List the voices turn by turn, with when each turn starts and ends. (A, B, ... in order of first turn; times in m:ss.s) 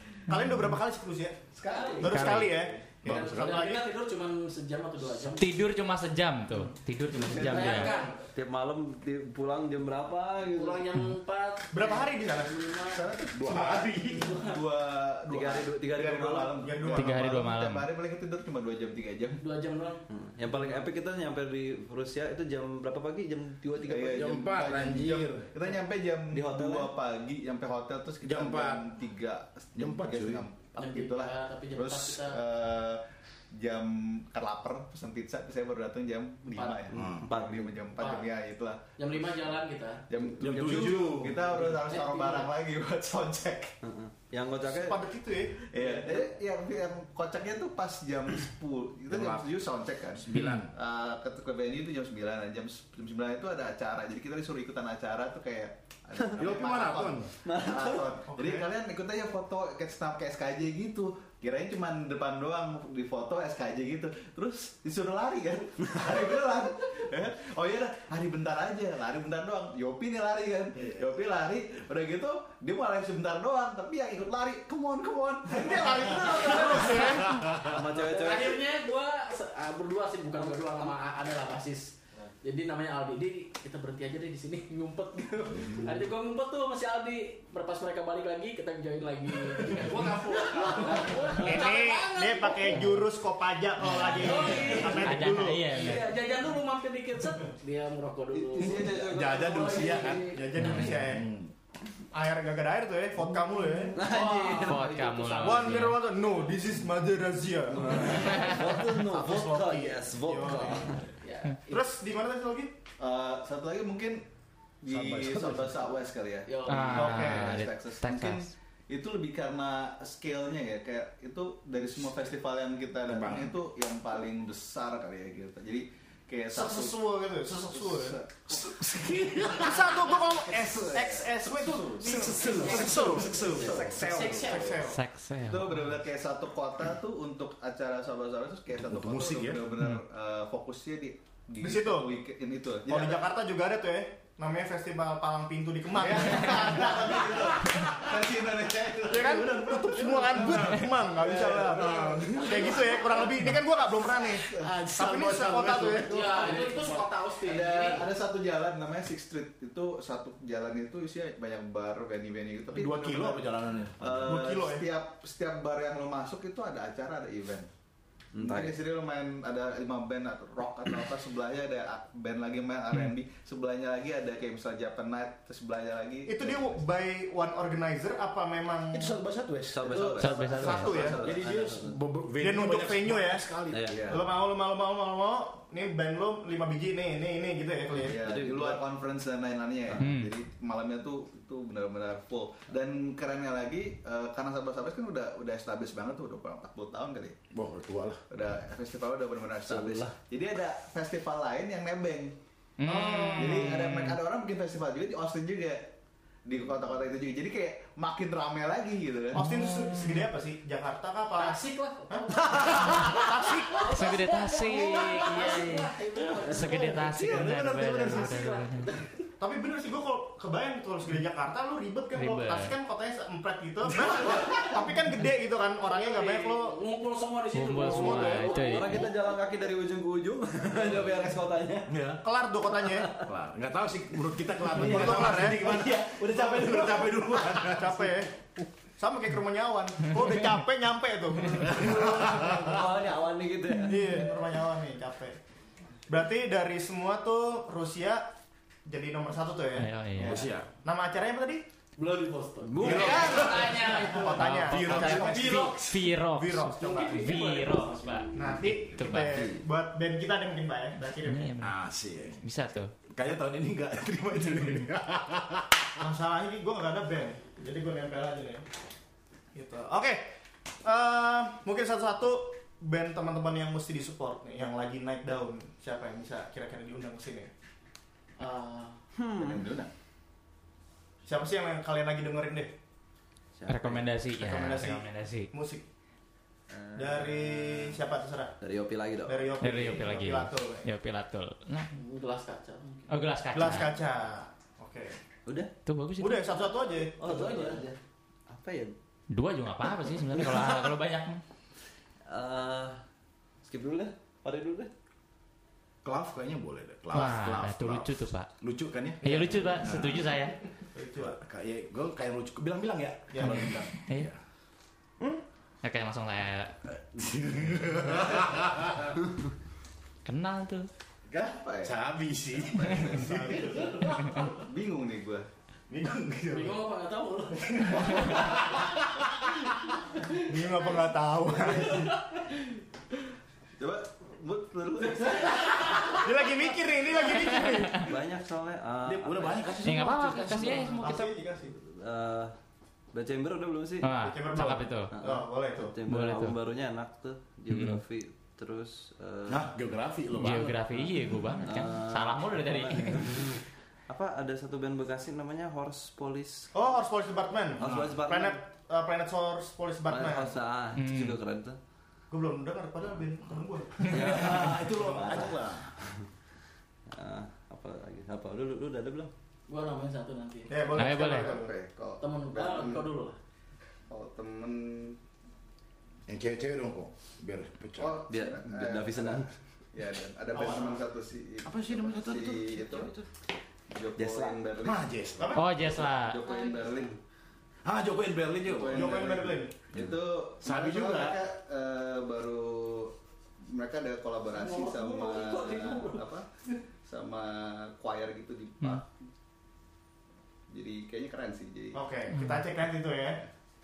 0:00.3-0:01.4 A
0:01.5-0:02.8 B
0:01.6-0:02.3 C
0:02.0-0:03.9 A
0:02.1-0:02.6 D
0:03.0-0:03.6 E
0:03.0-0:05.6 C
0:05.4-0:07.9 D
0:07.3-0:08.2 C
0:07.3-0:08.0 B
0:08.3-0:10.9 F
0:10.5-0:13.1 C
0:11.7-0:12.5 A
0:12.9-0:19.4 B
0:13.3-0:14.4 E
0:14.2-0:14.6 C
0:15.3-0:16.6 F
0:16.6-0:17.4 A
0:16.9-0:17.9 D
0:19.4-0:20.0 C
0:20.1-0:24.4 F
0:23.8-0:39.2 B
0:23.9-0:25.5 E
0:26.3-0:26.9 F
0:28.2-0:28.9 E
0:29.8-0:30.4 E
0:30.8-0:32.4 C
0:36.5-0:36.8 C
0:36.9-0:37.9 F
0:36.9-0:37.3 E
0:38.0-0:38.3 C
0:39.0-0:40.0 C
0:40.1-0:43.7 B
0:40.4-0:41.5 E
0:41.6-0:42.5 C
0:43.8-0:45.0 F
0:44.7-0:45.7 A
0:45.7-1:17.2 B
0:49.1-0:49.6 E
0:50.2-0:50.7 E
0:50.4-0:50.6 D
0:56.3-0:57.3 E
0:57.4-0:58.1 F
0:58.3-0:58.7 A
1:15.6-1:17.4 A
1:16.4-1:17.0 C
1:17.6-1:18.6 F
1:17.9-1:32.9 C
1:31.4-1:36.0 A
1:33.9-1:40.5 C
1:35.0-1:36.1 D
1:38.3-1:40.2 F
1:38.6-1:41.5 E
1:40.3-1:41.3 A
1:40.6-1:40.9 D
1:42.1-1:44.0 A
1:43.9-1:45.3 F
1:44.0-1:45.8 C
1:44.6-1:46.0 D
1:45.4-1:51.0 A
1:47.7-1:51.0 F
1:48.3-1:48.6 D
1:51.2-1:51.8 C
1:51.7-1:52.7 A
1:53.0-1:54.2 B
1:54.8-2:07.0 B
1:54.9-1:55.8 E
1:56.4-1:57.3 C
1:56.7-1:58.5 D
1:56.9-1:57.5 A
2:03.0-2:03.6 E
2:06.5-2:08.2 A
2:07.7-2:08.7 B
2:08.5-2:10.0 E
2:09.6-2:15.0 A
2:09.6-2:12.1 B
2:12.0-2:14.4 E
2:12.2-2:14.9 C
2:13.6-2:14.2 B
2:14.8-2:15.9 D
2:15.4-2:23.2 B
2:18.8-2:19.7 E
2:21.6-2:22.1 A
2:22.9-2:27.2 A
2:26.0-2:33.3 B
2:26.7-2:28.1 E
2:29.1-2:36.3 A
2:29.3-2:33.5 E
2:34.2-2:36.6 E
2:34.4-2:34.7 B
2:36.0-2:38.1 C
2:36.4-2:43.5 B
2:42.7-2:44.4 E
2:44.0-2:47.7 B
2:44.2-2:44.9 A
2:48.3-2:48.8 F
2:48.4-2:56.8 B
2:56.2-2:59.2 A
2:58.9-3:00.3 E
2:59.7-3:02.0 F
2:59.9-3:01.7 B
3:00.2-3:01.0 D
3:00.6-3:01.2 A
3:01.2-3:03.9 E
3:02.4-3:03.5 A
3:03.7-3:04.1 F
3:03.9-3:04.2 B
3:04.1-3:08.2 A
3:08.0-3:17.4 B
3:08.1-3:08.8 F
3:10.0-3:10.3 D
3:17.5-3:18.2 E
3:18.3-3:22.3 B
3:19.7-3:20.1 F
3:22.8-3:24.2 D
3:22.9-3:25.9 B
3:22.9-3:23.4 A
3:26.4-3:29.4 B
3:29.3-3:32.4 A
3:29.4-3:30.2 D
3:31.3-3:39.1 C
3:33.0-3:33.8 A
3:33.9-3:35.9 D
3:36.4-3:38.9 D
3:36.5-3:38.5 E
3:39.4-3:46.8 A
3:42.1-3:42.7 D
3:44.0-3:44.4 E
3:45.9-3:49.2 C
3:47.5-3:49.0 D
3:47.9-3:48.4 A
3:48.5-3:51.9 F
3:51.9-3:52.2 E
3:52.2-3:53.1 A
3:52.9-3:53.3 F
3:53.2-3:58.2 E
3:54.7-3:57.7 F
3:54.8-3:55.6 A
3:57.7-3:58.3 A
3:59.0-4:01.9 A
4:01.6-4:04.2 F
4:01.6-4:02.8 E
4:03.8-4:05.4 A
4:06.1-4:08.3 A
4:08.9-4:09.9 A
4:09.8-4:10.4 D
4:10.2-4:10.7 E
4:10.8-4:11.6 A
4:12.0-4:16.0 C
4:12.6-4:13.9 F
4:12.8-4:14.1 E
4:14.1-4:15.7 A
4:14.4-4:19.5 D
4:14.7-4:15.8 E
4:16.3-4:17.4 A
4:16.7-4:18.3 C
4:18.3-4:21.5 A
4:21.2-4:21.7 D
4:21.6-4:22.4 E
4:22.4-4:22.9 D
4:23.1-4:25.9 E
4:26.0-4:28.6 A
4:29.5-4:37.5 A
4:38.4-4:39.0 C
4:39.1-4:39.7 F
4:39.4-4:39.9 E
4:39.6-4:39.9 B
4:41.2-4:42.7 A
4:43.5-4:44.1 F
4:43.7-4:45.5 D
4:44.4-4:45.9 A
4:46.7-4:47.9 F
4:46.9-4:48.5 A
4:48.6-4:49.5 F
4:49.2-4:50.9 A
4:49.6-4:51.9 D
4:51.9-4:53.3 C
4:53.1-4:53.9 D
4:53.5-4:55.2 A
4:55.4-4:55.7 F
4:55.9-4:56.6 D
4:56.2-4:57.2 A
4:57.2-4:58.9 F
4:57.2-4:57.8 C
4:59.3-5:01.4 D
5:00.4-5:00.8 F
5:02.2-5:03.0 F
5:03.6-5:04.9 F
5:06.0-5:10.4 E
5:07.1-5:08.5 D
5:09.2-5:10.6 D
5:10.9-5:11.4 A
5:11.2-5:14.4 E
5:13.3-5:13.7 A
5:14.0-5:14.3 D
5:15.8-5:16.7 D
5:17.0-5:19.1 E
5:20.2-5:20.9 D
5:21.3-5:24.4 E
5:21.3-5:25.5 B
5:23.2-5:23.9 A
5:25.9-5:26.6 A
5:25.9-5:26.7 E
5:26.5-5:28.7 C
5:27.8-5:28.8 E
5:30.2-5:32.4 C
5:30.5-5:32.0 A
5:33.8-5:35.8 B
5:36.1-5:38.1 A
5:37.6-5:38.1 D
5:37.9-5:39.8 F
5:39.0-5:40.9 E
5:39.8-5:41.3 D
5:40.5-5:41.7 A
5:41.8-5:42.5 F
5:43.1-5:44.1 F
5:44.0-5:45.1 D
5:44.2-5:45.9 A
5:45.1-5:49.7 F
5:46.1-5:46.5 D
5:47.7-5:48.0 D
5:49.5-5:51.1 E
5:50.4-5:53.5 D
5:51.6-5:56.7 F
5:56.7-6:00.5 A
5:57.8-5:58.6 F
5:57.8-5:58.2 E
6:00.1-6:01.8 F
6:01.0-6:01.4 D
6:02.3-6:04.5 A
6:04.0-6:05.9 E
6:04.0-6:06.2 F
6:07.1-6:09.3 F
6:09.7-6:10.9 C
6:10.7-6:11.7 A
6:11.0-6:11.6 D
6:11.2-6:13.1 B
6:12.2-6:13.4 C
6:14.1-6:15.2 B
6:16.3-6:18.2 E
6:18.0-6:23.1 B
6:18.3-6:19.5 F
6:20.5-6:21.0 E
6:21.6-6:23.1 E
6:22.9-6:23.2 F
6:23.9-6:25.1 B
6:24.1-6:24.6 F
6:24.8-6:25.8 E
6:25.4-6:25.7 A
6:25.5-6:26.4 D
6:25.8-6:27.2 B
6:26.4-6:27.0 C
6:27.8-6:29.5 E
6:28.6-6:36.4 B
6:28.9-6:29.7 A
6:29.9-6:30.2 F
6:30.6-6:31.4 E
6:34.5-6:36.3 C
6:37.0-6:39.0 B
6:40.7-6:42.0 B
6:41.9-6:43.4 A